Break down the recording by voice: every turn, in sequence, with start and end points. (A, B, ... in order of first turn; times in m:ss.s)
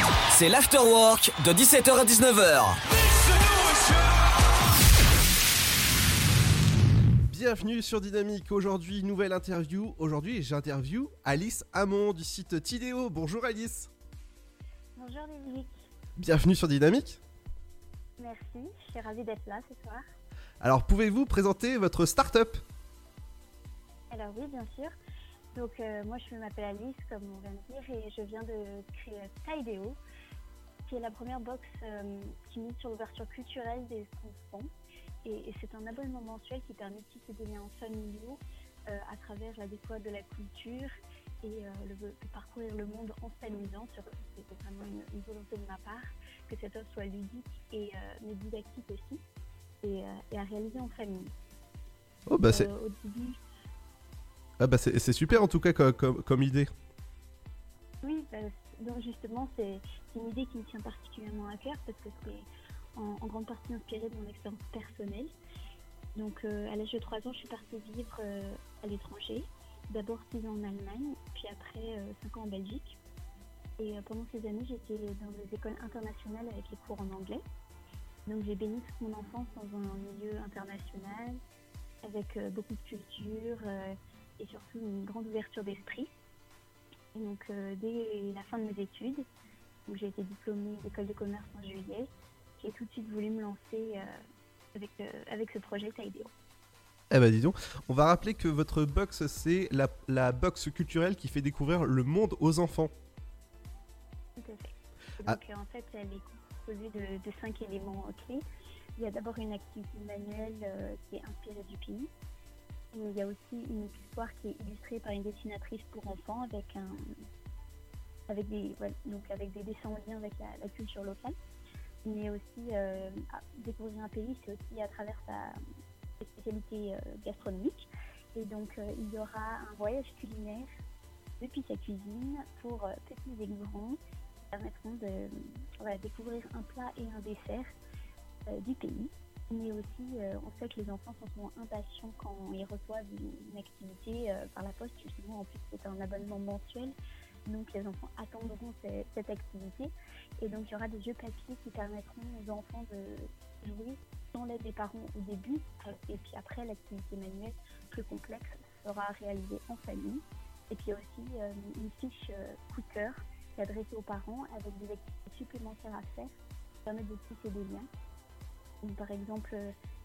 0:00.3-0:02.8 A
0:07.3-0:13.9 B
0:15.0-0:15.8 C
0:16.2-0:17.2 B
0:18.2-0:20.0 C
0:20.6-0:22.6 B
0:24.1-0:24.9 C
0:25.5-0:30.0 C
0:30.9-0:34.7 C
0:35.2-0:49.2 C
0:49.8-0:51.3 C
0:52.3-0:52.7 B
0:52.4-0:53.4 C
0:54.6-0:56.7 B
0:58.0-1:05.3 C
1:06.1-1:13.0 C
1:13.8-1:17.4 C
1:18.2-1:21.4 C
1:22.0-1:26.1 C
1:27.1-1:29.2 C
1:29.9-1:34.2 C
1:34.7-1:36.3 C
1:37.1-1:42.9 B
1:44.4-1:48.4 C
1:49.0-1:52.1 C
1:52.9-1:57.1 C
1:58.3-2:01.3 C
2:02.0-2:05.6 C
2:06.2-2:10.7 C
2:11.4-2:14.0 C
2:14.5-2:17.7 C
2:18.5-2:26.9 C
2:27.4-2:46.3 C
2:46.8-2:47.9 C
2:48.8-2:49.7 C